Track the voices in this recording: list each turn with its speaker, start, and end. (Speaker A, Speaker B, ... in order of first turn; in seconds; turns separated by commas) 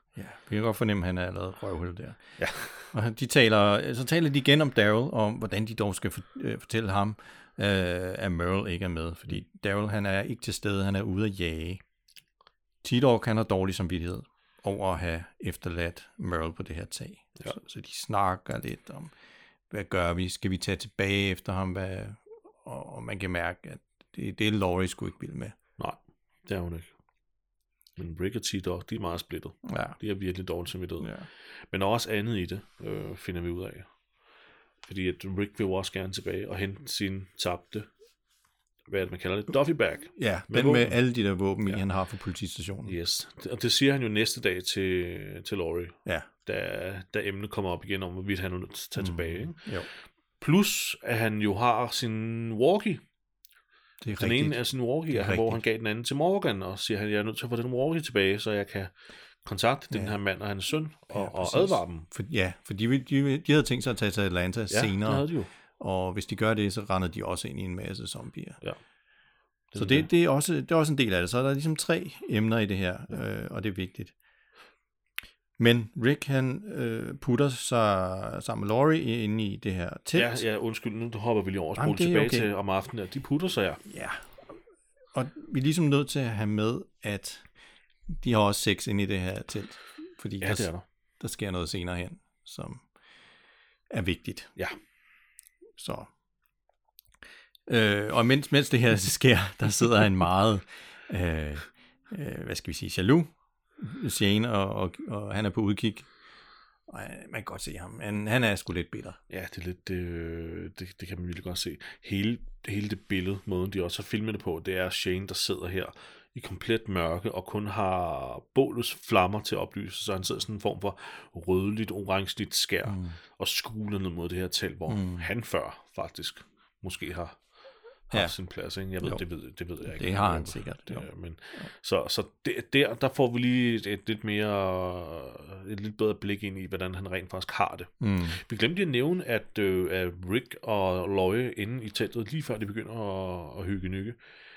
Speaker A: 0.2-2.2, Speaker B: 2.4-2.9, Speaker A: 2.9-11.8, Speaker A: 12.8-19.1, Speaker A: 19.7-25.6, Speaker B: 25.8-26.9, Speaker B: 28.0-33.9, Speaker A: 29.6-30.0, Speaker A: 31.0-31.3, Speaker B: 34.9-37.9, Speaker B: 38.9-41.0, Speaker A: 40.1-43.0, Speaker B: 42.9-49.7, Speaker A: 49.0-49.9, Speaker B: 50.4-53.0, Speaker A: 54.0-55.6, Speaker B: 54.2-62.1, Speaker A: 59.9-60.2, Speaker A: 61.1-68.6, Speaker B: 64.7-65.5, Speaker B: 69.7-70.1, Speaker A: 69.8-74.1, Speaker A: 75.6-80.4, Speaker B: 80.1-83.8, Speaker A: 81.8-82.5, Speaker A: 83.8-84.3, Speaker A: 85.1-87.5, Speaker A: 88.1-90.7, Speaker B: 90.4-90.8, Speaker A: 91.2-92.8, Speaker A: 93.9-94.5, Speaker A: 95.8-96.1, Speaker A: 97.7-106.1, Speaker A: 106.9-109.2, Speaker B: 109.3-127.4, Speaker A: 122.8-123.2, Speaker A: 124.9-125.3, Speaker B: 128.1-144.2, Speaker A: 129.8-131.7, Speaker A: 138.0-138.4